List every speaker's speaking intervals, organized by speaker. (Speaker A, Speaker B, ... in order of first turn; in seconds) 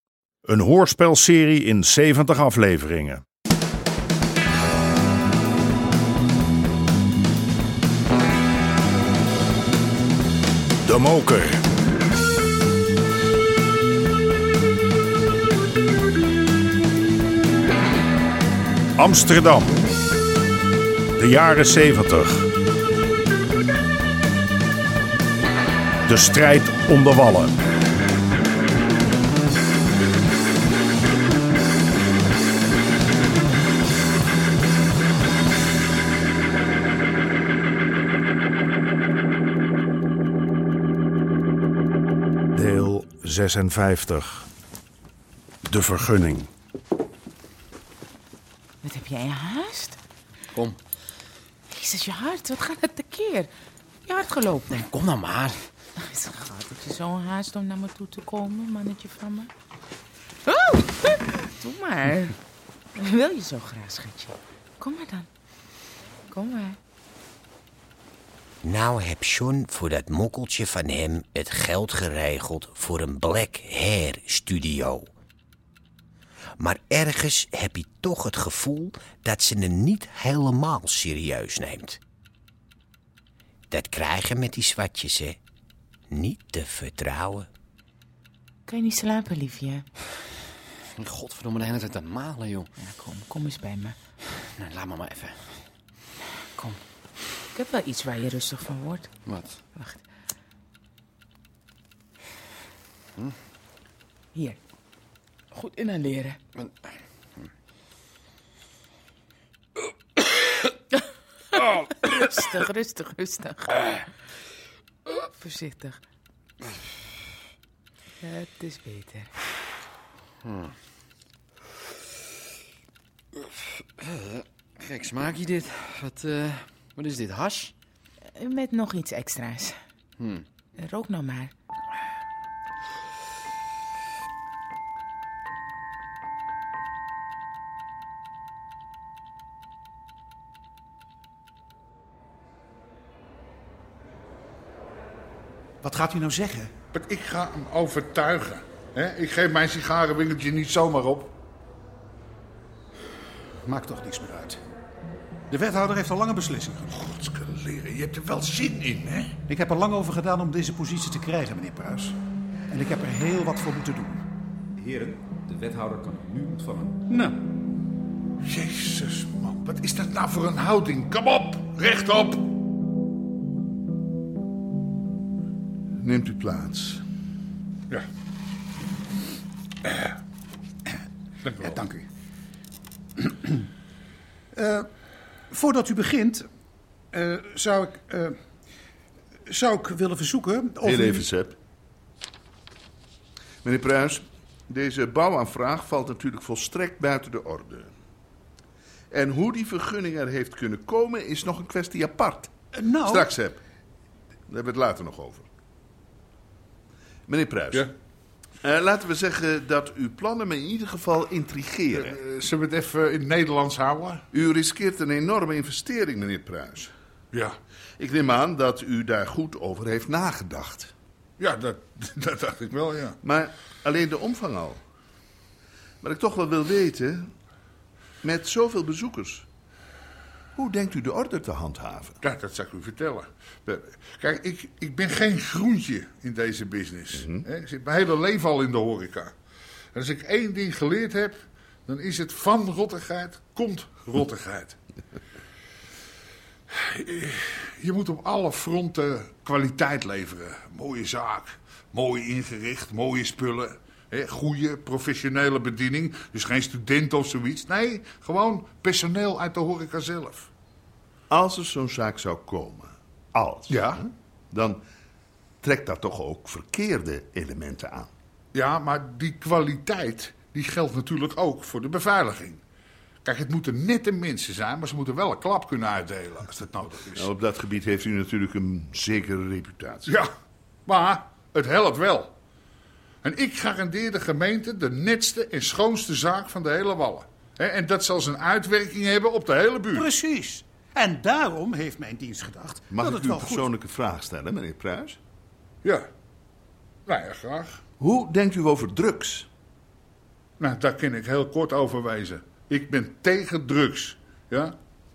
Speaker A: 0.4-3.2, 10.8-11.6, 18.9-19.8, 21.1-22.5, 26.1-27.6, 42.5-44.5, 45.6-46.5
Speaker B: 48.8-50.0, 51.7-53.5, 54.0-54.9, 56.0-59.5, 60.5-62.4, 63.0-65.3, 66.3-66.8, 88.7-89.8, 92.8-94.0, 97.5-99.1, 99.7-100.0, 105.5-106.4, 111.6-114.0, 115.3-116.0, 118.2-119.3, 128.3-129.8, 130.8-131.5
Speaker C: 55.1-55.5, 91.2-92.6, 94.6-95.2, 124.9-127.7
Speaker D: 68.6-75.1, 76.6-82.0, 83.7-85.4, 86.1-87.5
Speaker E: 145.8-146.7, 153.7-154.6, 155.5-156.9, 159.5-162.1, 162.7-164.2, 181.7-182.1, 184.5-184.9, 185.5-186.4, 187.1-188.4, 189.5-191.2, 202.8-203.2, 289.9-293.6
Speaker F: 146.9-151.3, 157.0-159.3, 168.4-172.5, 181.4-181.7, 212.1-214.2, 217.3-217.6, 221.4-223.2, 232.2-239.3, 239.9-244.8, 246.7-260.5, 263.7-264.0, 268.5-272.6, 273.2-277.2, 280.9-282.3, 283.2-290.1, 297.1-297.8, 300.6-304.8
Speaker G: 164.8-166.9
Speaker H: 176.0-177.0, 190.8-191.6, 193.6-197.9, 199.1-202.5, 203.1-203.6, 204.5-205.5, 207.3-207.9, 208.6-212.2, 214.3-216.9, 218.0-220.9, 223.2-224.8, 226.0-227.3, 228.2-229.4, 230.6-232.2, 237.1-237.4, 261.3-264.8, 265.6-268.1, 277.1-280.1, 292.9-295.2, 298.0-299.5